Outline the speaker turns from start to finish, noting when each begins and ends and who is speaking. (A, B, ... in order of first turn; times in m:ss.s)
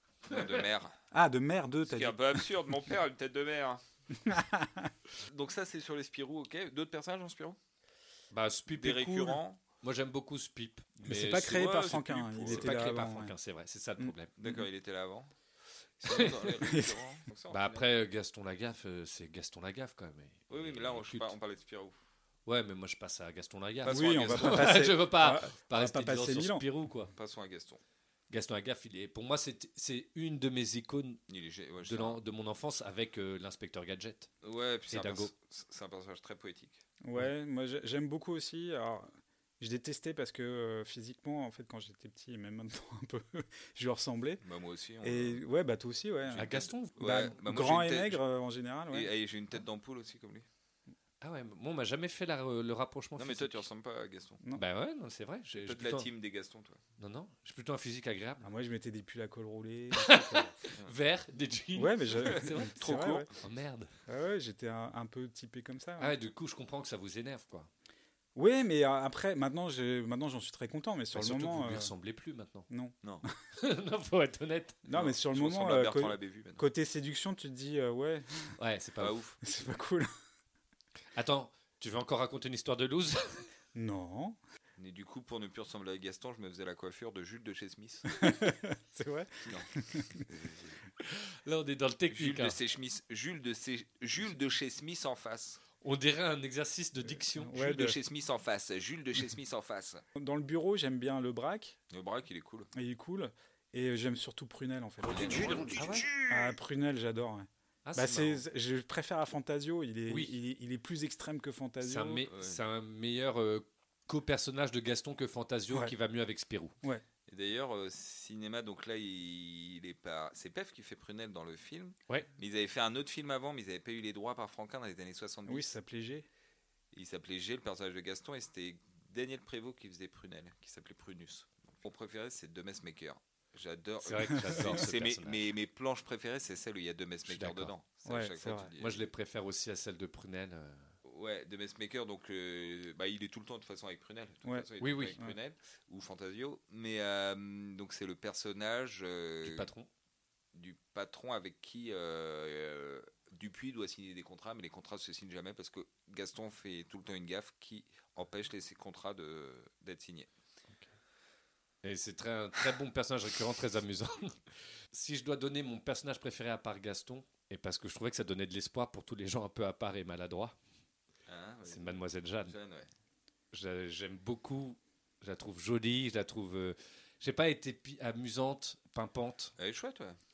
0:00.3-0:00.9 A
0:01.1-0:02.4 B
0:01.8-0:03.8 A
0:04.2-0:04.9 B
0:05.2-0:07.6 A
0:08.3-0:11.6 C
0:08.8-0:09.6 A
0:11.0-0:13.3 B
0:11.4-0:12.7 A
0:12.4-0:14.3 C
0:14.0-0:14.5 B
0:14.4-0:15.3 A
0:16.0-0:17.8 A
0:16.6-0:17.0 B
0:17.5-0:21.3 C
0:20.5-0:21.9 A
0:22.4-0:27.1 C
0:23.8-0:24.7 A
0:23.9-0:26.6 B
0:27.1-0:27.8 A
0:28.3-0:31.2 C
0:31.3-0:32.2 A
0:31.8-0:34.3 C
0:34.4-0:36.8 A
0:34.9-0:35.3 C
0:37.0-0:44.4 B
0:44.4-0:45.4 A
0:45.0-0:49.1 B
0:46.3-0:48.2 A
0:46.4-0:46.9 C
0:48.9-0:50.4 A
0:51.2-0:53.6 C
0:53.2-0:54.4 A
0:54.6-0:56.1 C
0:55.6-0:56.8 A
0:57.0-0:58.5 C
0:58.4-1:00.5 B
1:00.0-1:03.9 C
1:01.7-1:03.3 B
1:02.8-1:03.2 A
1:04.1-1:06.1 B
1:06.0-1:07.7 C
1:08.3-1:11.9 B
1:11.1-1:12.7 C
1:12.7-1:13.0 B
1:13.6-1:14.9 C
1:14.9-1:18.5 B
1:14.9-1:16.6 A
1:18.6-1:19.2 C
1:19.0-1:19.4 A
1:19.4-1:20.1 B
1:21.2-1:23.4 C
1:23.7-1:24.4 B
1:24.8-1:28.1 A
1:28.2-1:30.2 B
1:29.4-1:30.8 A
1:31.4-1:32.6 C
1:32.1-1:35.6 A
1:35.8-1:37.5 C
1:37.0-1:38.0 B
1:37.5-1:40.0 A
1:40.2-1:41.8 B
1:41.9-1:42.7 A
1:42.7-1:52.2 B
1:45.2-1:46.1 C
1:45.2-1:45.8 A
1:47.8-1:48.4 C
1:50.1-1:50.3 C
1:51.8-1:56.7 C
1:52.3-1:52.6 A
1:57.3-2:05.7 A
2:05.5-2:06.3 B
2:06.9-2:19.0 A
2:14.0-2:15.4 C
2:17.3-2:17.7 C
2:18.0-2:18.7 B
2:18.8-2:20.9 C
2:21.0-2:29.7 A
2:24.8-2:25.2 C
2:29.4-2:29.9 C
2:30.5-2:40.3 A
2:41.8-2:44.4 C
2:44.9-2:50.6 C
2:51.3-2:52.9 A
2:51.6-2:52.5 C
2:53.5-2:59.5 C
2:59.6-3:00.2 A